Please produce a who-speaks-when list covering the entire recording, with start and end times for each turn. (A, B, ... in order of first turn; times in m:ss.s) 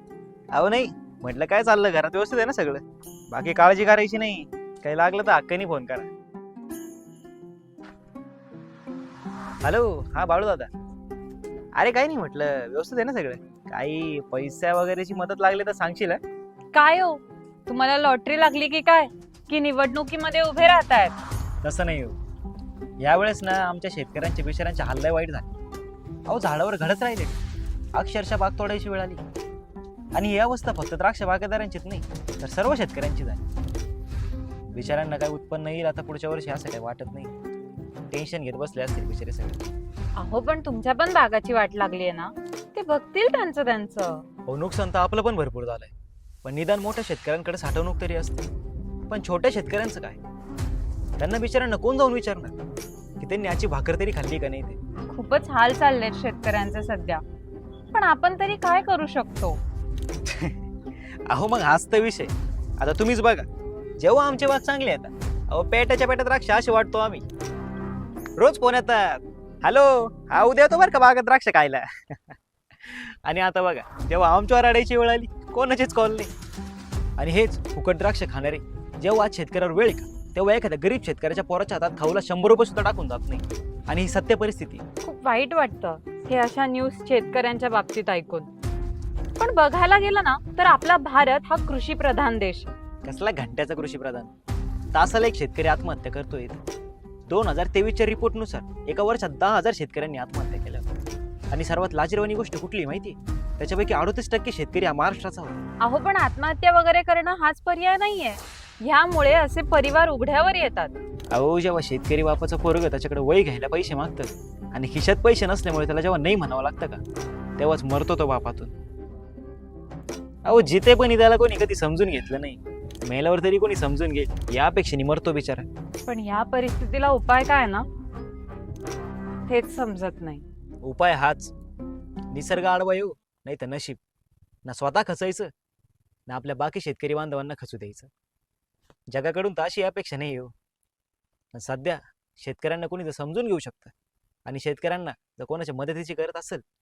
0:00.5-0:06.1 A
0:09.6-0:10.7 A
0:11.8-0:16.2 A
0:16.7-0:21.2 B
0:21.6-0:22.2 A
0:23.0-0:25.5 A
0:26.3-0:27.4 A
0:28.0-0:29.2 A
0:30.1-0:33.4 A
0:34.7-0:37.3 A
0:38.1-0:39.6 A
0:40.2-0:44.2 B
0:44.5-0:45.9 A
0:46.4-0:48.5 A
0:49.1-0:50.2 A
0:51.2-0:52.6 A
0:53.2-0:54.8 A
0:55.1-0:57.2 B
0:57.9-0:59.6 B
1:00.3-1:00.6 A
1:01.3-1:03.5 A
1:04.0-1:07.2 A
1:08.4-1:16.3 A
1:17.2-1:24.8 A
1:25.0-1:28.5 B
1:29.4-1:32.7 B
1:33.0-1:34.3 A
1:34.9-1:36.6 A
1:37.3-1:40.9 A
1:41.5-1:45.6 A
1:45.8-1:51.0 B
1:51.3-1:57.0 A
1:57.6-1:58.7 A
2:00.4-2:05.7 A
2:06.0-2:07.9 B
2:09.5-2:10.4 B
2:10.8-2:11.5 A
2:12.3-2:14.0 A
2:14.6-2:15.5 A
2:16.3-2:18.1 A
2:19.1-2:20.5 A
2:21.5-2:23.9 A
2:24.4-2:26.6 A